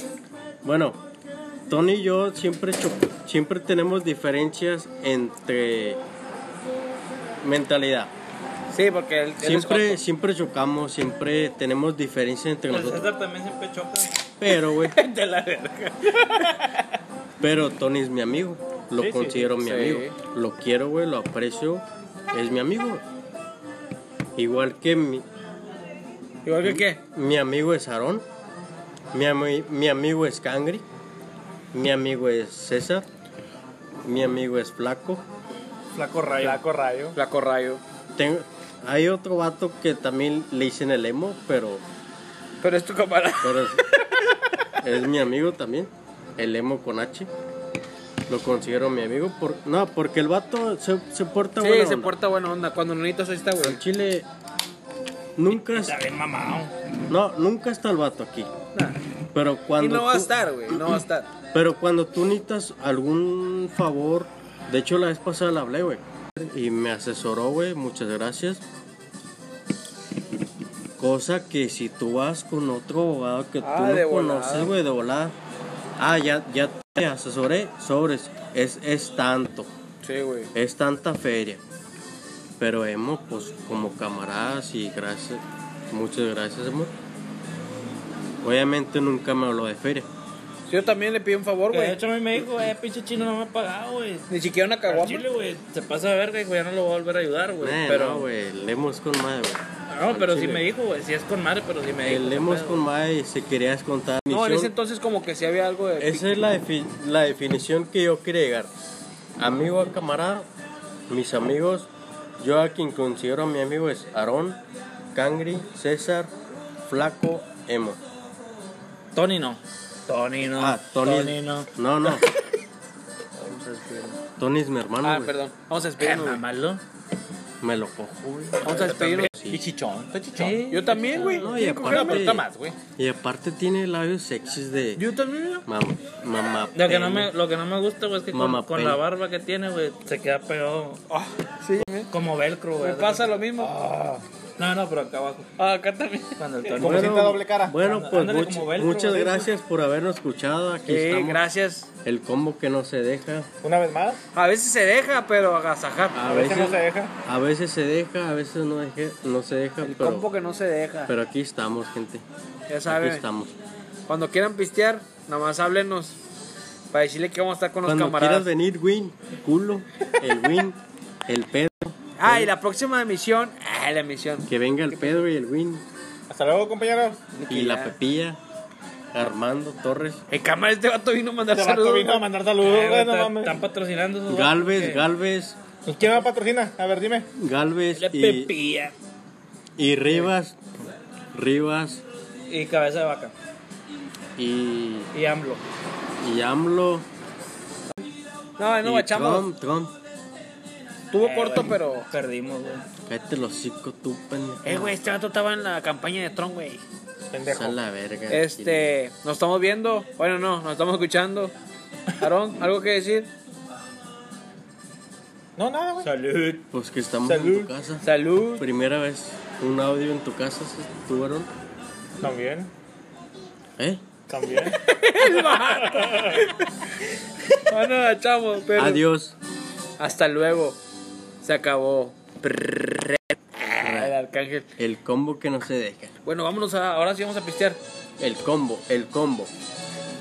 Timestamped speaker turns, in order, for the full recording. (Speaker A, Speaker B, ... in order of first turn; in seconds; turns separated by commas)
Speaker A: 0.6-1.0, Speaker A: 1.7-6.0, Speaker A: 7.4-8.1, Speaker B: 8.7-10.0, Speaker A: 9.4-13.1, Speaker C: 12.7-14.1, Speaker A: 14.4-15.0, Speaker B: 14.8-16.8, Speaker A: 17.4-23.0, Speaker D: 19.0-19.3, Speaker B: 19.0-20.2, Speaker A: 24.4-25.2, Speaker B: 26.4-27.0, Speaker A: 26.6-28.3, Speaker A: 29.1-30.8, Speaker A: 31.7-33.1, Speaker A: 34.0-35.2, Speaker C: 35.9-36.6, Speaker D: 36.3-37.2, Speaker B: 37.1-37.8, Speaker A: 38.2-41.8, Speaker B: 42.6-44.4, Speaker A: 43.4-43.9, Speaker A: 44.8-47.3, Speaker A: 48.3-52.1, Speaker B: 51.6-53.8, Speaker A: 53.6-54.3, Speaker A: 55.4-56.0, Speaker C: 55.5-56.7, Speaker A: 57.1-58.5, Speaker A: 59.3-60.4, Speaker B: 59.8-61.3, Speaker A: 61.5-68.6, Speaker A: 71.0-75.3, Speaker B: 73.6-74.7, Speaker A: 76.0-79.7, Speaker B: 80.0-80.5, Speaker A: 80.5-81.6, Speaker A: 82.6-86.9, Speaker A: 88.4-90.1, Speaker B: 90.7-92.0, Speaker C: 91.7-94.3, Speaker B: 94.3-95.3, Speaker C: 94.9-98.3, Speaker A: 97.6-100.7, Speaker C: 99.9-102.8, Speaker A: 102.0-104.7, Speaker B: 104.3-106.3, Speaker A: 106.0-108.7, Speaker A: 109.4-110.5, Speaker A: 111.1-111.9, Speaker A: 112.4-114.6, Speaker A: 115.1-116.3, Speaker A: 116.9-118.0, Speaker C: 119.2-122.3, Speaker A: 120.6-122.3, Speaker C: 123.4-124.2, Speaker A: 124.4-125.4, Speaker B: 125.0-126.4, Speaker C: 126.0-126.8, Speaker A: 127.6-129.6, Speaker B: 128.6-129.3, Speaker D: 128.8-130.7, Speaker C: 130.3-131.6, Speaker B: 130.7-132.3, Speaker A: 131.2-132.5, Speaker D: 131.8-132.8, Speaker A: 133.0-135.1, Speaker B: 135.0-135.7, Speaker A: 135.7-137.3, Speaker C: 136.7-141.0, Speaker A: 138.3-139.0, Speaker B: 141.1-142.1, Speaker C: 142.1-143.4, Speaker B: 142.8-143.8, Speaker D: 143.7-144.2, Speaker C: 144.6-145.5, Speaker B: 145.6-146.7, Speaker C: 146.4-149.5, Speaker D: 146.8-147.8, Speaker A: 146.8-151.4, Speaker B: 150.9-151.9, Speaker A: 152.0-153.5, Speaker D: 153.6-154.2, Speaker B: 154.3-156.5, Speaker A: 156.1-160.3, Speaker D: 156.3-157.1, Speaker B: 159.8-161.1, Speaker A: 161.1-162.2, Speaker B: 162.7-163.2, Speaker A: 162.9-163.6, Speaker B: 164.1-166.2, Speaker B: 166.9-168.5, Speaker A: 167.8-172.5, Speaker B: 172.2-175.2, Speaker A: 174.5-175.8, Speaker D: 176.3-177.2, Speaker B: 177.3-177.9, Speaker A: 177.5-178.4, Speaker A: 179.1-180.2, Speaker B: 180.3-182.3, Speaker D: 181.5-183.6, Speaker C: 182.6-185.1, Speaker A: 184.3-185.6, Speaker D: 185.9-187.3, Speaker A: 187.3-188.5, Speaker C: 187.9-188.9, Speaker A: 189.8-190.6, Speaker A: 191.3-192.0, Speaker C: 192.5-193.3, Speaker A: 194.4-195.1, Speaker C: 195.1-195.6, Speaker A: 196.2-197.1, Speaker B: 198.6-199.5, Speaker A: 198.8-199.9, Speaker B: 201.1-202.1, Speaker C: 201.2-202.9, Speaker A: 203.1-205.0, Speaker B: 204.6-206.8, Speaker D: 207.3-207.8, Speaker A: 207.5-208.9, Speaker B: 208.3-211.5, Speaker B: 212.2-213.3, Speaker D: 215.6-216.1, Speaker C: 216.0-216.6, Speaker A: 216.7-221.5, Speaker D: 217.2-217.7, Speaker B: 218.0-218.6, Speaker D: 222.2-222.7, Speaker A: 223.8-224.0, Speaker D: 224.3-224.8, Speaker B: 224.7-226.7, Speaker D: 225.5-226.4, Speaker B: 227.5-229.0, Speaker A: 228.8-229.4, Speaker B: 230.0-230.8, Speaker B: 231.4-234.7, Speaker A: 233.8-234.1, Speaker A: 234.8-236.1, Speaker B: 236.2-237.8, Speaker A: 238.2-239.5